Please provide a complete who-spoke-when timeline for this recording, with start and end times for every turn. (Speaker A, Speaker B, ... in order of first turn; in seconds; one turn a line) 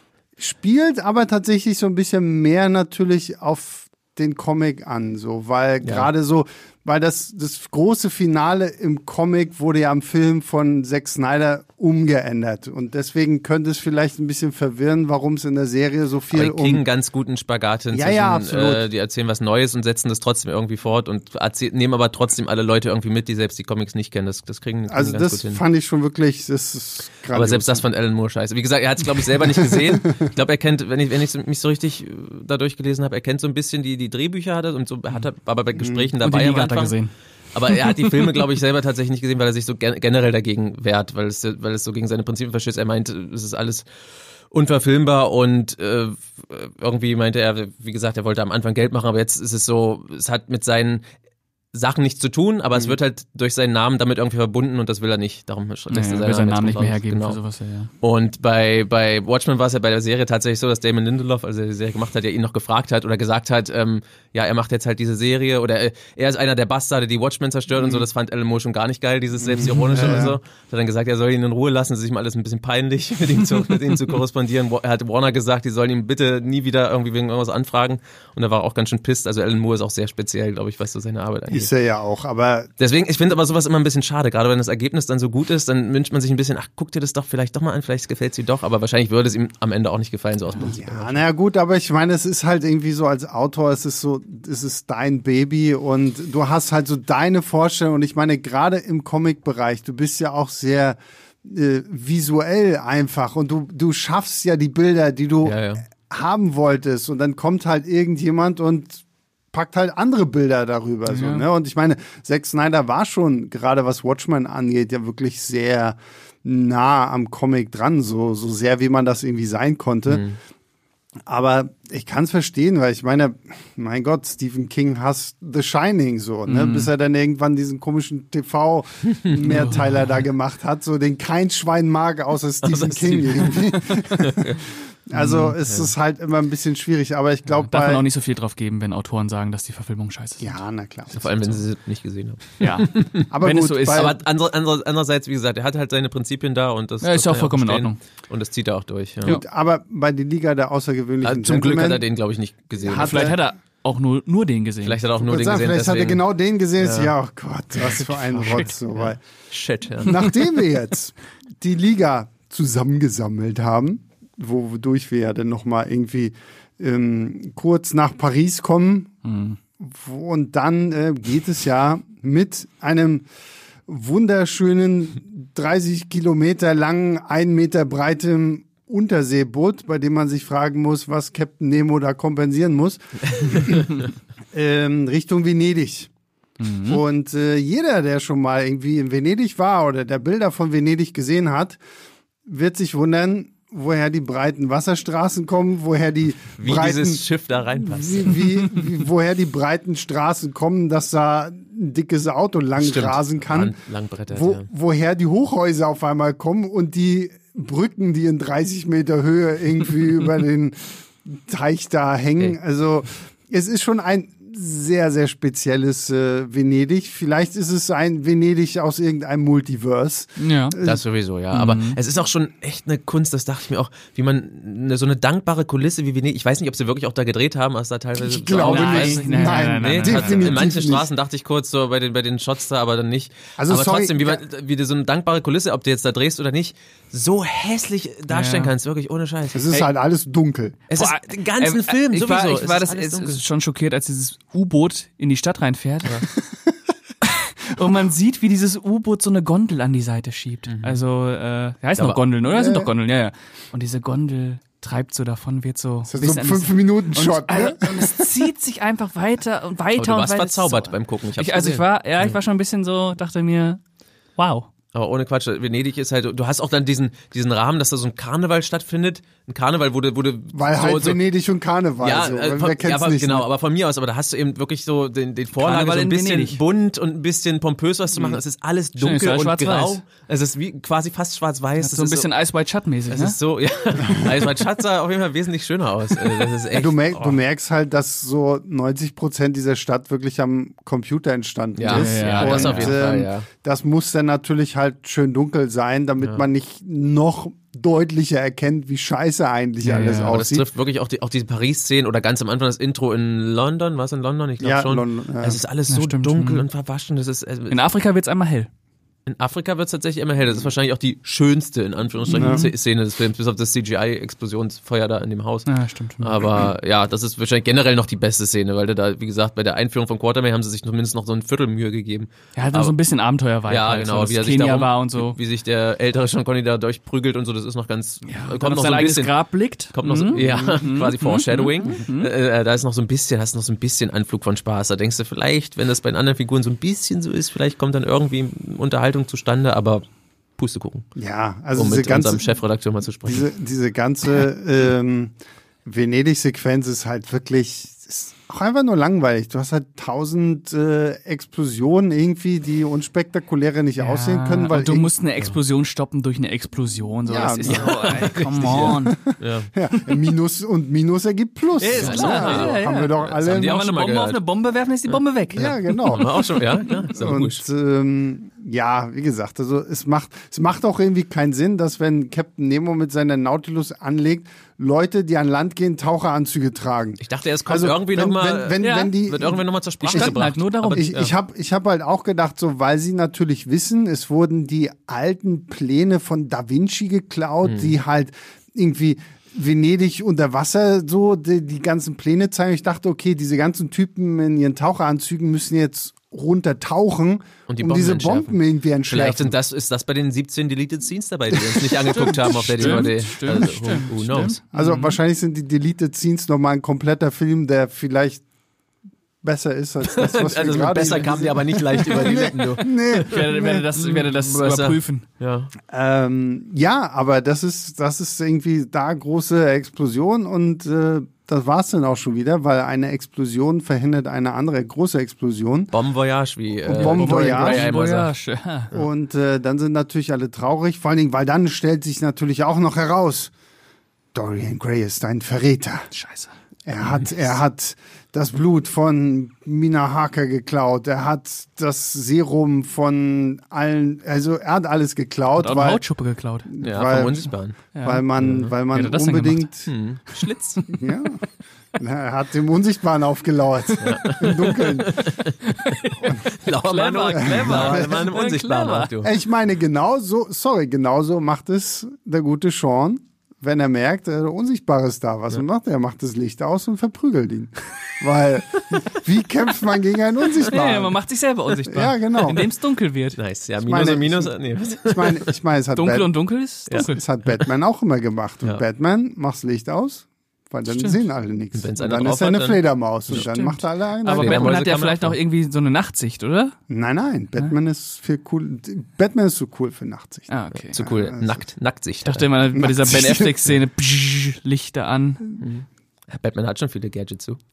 Speaker A: 0.4-16.8
Speaker B: 5.8-6.1
Speaker B: 16.3-25.6
Speaker A: 17.9-18.8
Speaker A: 24.9-27.8
Speaker B: 27.3-37.0
Speaker A: 29.5-30.3
Speaker A: 35.8-36.1
Speaker C: 36.2-37.1
Speaker B: 37.5-43.9
Speaker C: 37.7-38.4
Speaker B: 44.5-51.0
Speaker B: 51.7-57.4
Speaker C: 55.9-57.9
Speaker B: 58.0-81.7
Speaker A: 69.4-70.3
Speaker C: 69.6-70.3
Speaker A: 81.5-82.7
Speaker B: 82.8-91.2
Speaker A: 90.6-120.2
Speaker B: 105.4-105.8
Speaker C: 111.1-111.4
Speaker B: 120.1-120.3
Speaker A: 121.3-138.0
Speaker C: 126.5-126.9
Speaker B: 129.1-129.7
Speaker C: 129.4-130.1
Speaker B: 132.6-134.7
Speaker C: 135.1-135.5
Speaker B: 135.6-135.9
Speaker C: 137.6-140.6
Speaker A: 140.4-141.5
Speaker B: 141.1-143.3
Speaker C: 142.6-144.1
Speaker A: 143.3-144.1
Speaker B: 143.9-149.4
Speaker C: 147.0-148.0
Speaker A: 149.2-152.0
Speaker B: 151.2-153.4
Speaker A: 152.8-153.4
Speaker C: 152.9-155.0
Speaker B: 154.8-156.2
Speaker A: 155.2-159.2
Speaker B: 156.8-157.1
Speaker C: 157.8-158.7
Speaker B: 158.9-160.3
Speaker A: 160.0-169.1
Speaker C: 169.2-169.6
Speaker A: 169.8-173.2
Speaker A: 173.9-186.1
Speaker B: 183.5-183.8
Speaker C: 186.6-187.0
Speaker A: 186.8-191.8
Speaker A: 192.4-197.2
Speaker B: 196.6-198.5
Speaker A: 197.7-203.7
Speaker B: 202.8-204.7
Speaker A: 204.3-221.0
Speaker C: 220.4-220.8
Speaker B: 220.8-239.9
Speaker C: 221.5-222.0
Speaker A: 228.2-231.1
Speaker C: 228.6-230.6
Speaker A: 233.6-234.4
Speaker C: 238.3-238.7
Speaker A: 239.5-240.8
Speaker B: 240.9-243.4
Speaker C: 240.9-246.3
Speaker C: 247.2-263.8
Speaker B: 250.7-251.0
Speaker A: 252.4-252.9
Speaker A: 256.1-258.4
Speaker B: 259.9-262.4
Speaker C: 264.4-264.7
Speaker B: 264.9-271.2
Speaker A: 270.5-273.4
Speaker B: 272.0-282.3
Speaker C: 275.5-276.6
Speaker C: 279.0-280.0
Speaker C: 281.8-283.4
Speaker B: 283.1-287.4
Speaker A: 286.7-300.6
Speaker B: 291.8-293.5
Speaker C: 291.9-293.0
Speaker C: 299.8-300.4
Speaker B: 300.2-307.8
Speaker A: 304.6-305.6
Speaker C: 305.9-306.6
Speaker C: 307.7-308.7
Speaker B: 309.2-315.7
Speaker C: 312.3-312.7
Speaker A: 312.3-312.6
Speaker C: 315.6-316.5
Speaker B: 316.2-322.9
Speaker C: 322.6-325.4
Speaker B: 323.6-329.3
Speaker C: 328.2-332.3
Speaker B: 329.9-340.0
Speaker A: 330.3-330.8
Speaker B: 340.6-341.1
Speaker A: 341.1-342.5
Speaker B: 341.8-343.5
Speaker A: 343.2-345.3
Speaker A: 345.8-355.1
Speaker C: 354.0-359.2
Speaker A: 357.3-363.8
Speaker B: 357.6-359.7
Speaker C: 361.8-366.3
Speaker B: 361.9-364.4
Speaker B: 365.1-367.6
Speaker A: 365.5-366.4
Speaker A: 367.1-380.4
Speaker B: 377.2-381.3
Speaker C: 378.8-379.1
Speaker C: 380.0-381.1
Speaker A: 380.9-399.5
Speaker B: 387.6-387.9
Speaker B: 397.7-398.6
Speaker B: 399.1-404.6
Speaker A: 401.9-403.1
Speaker C: 402.0-405.2
Speaker A: 404.7-408.4
Speaker A: 409.4-413.9
Speaker B: 410.1-415.7
Speaker C: 413.1-415.2
Speaker A: 415.9-425.9
Speaker B: 425.9-428.3
Speaker A: 426.8-427.9
Speaker C: 426.9-428.9
Speaker A: 428.9-433.5
Speaker A: 434.3-436.1
Speaker C: 436.1-436.5
Speaker A: 436.9-446.0
Speaker C: 445.6-446.7
Speaker A: 446.7-447.5
Speaker B: 446.8-447.8
Speaker C: 447.9-448.2
Speaker A: 448.0-449.9
Speaker B: 448.4-448.7
Speaker C: 448.9-449.7
Speaker B: 449.9-450.2
Speaker C: 450.3-451.0
Speaker A: 450.9-451.4
Speaker A: 451.9-455.3
Speaker B: 454.0-459.3
Speaker C: 455.6-459.1
Speaker A: 457.3-458.3
Speaker A: 459.2-471.2
Speaker C: 470.6-473.4
Speaker A: 471.9-472.6
Speaker B: 473.4-475.5
Speaker A: 473.8-474.5
Speaker A: 475.0-476.3
Speaker C: 475.9-477.2
Speaker A: 476.9-484.8
Speaker C: 480.9-481.2
Speaker B: 481.7-483.5
Speaker C: 483.3-486.8
Speaker B: 484.3-485.4
Speaker A: 486.9-491.6
Speaker C: 490.5-491.0
Speaker B: 490.9-492.5
Speaker C: 492.2-495.4
Speaker A: 492.7-493.6
Speaker B: 495.6-497.6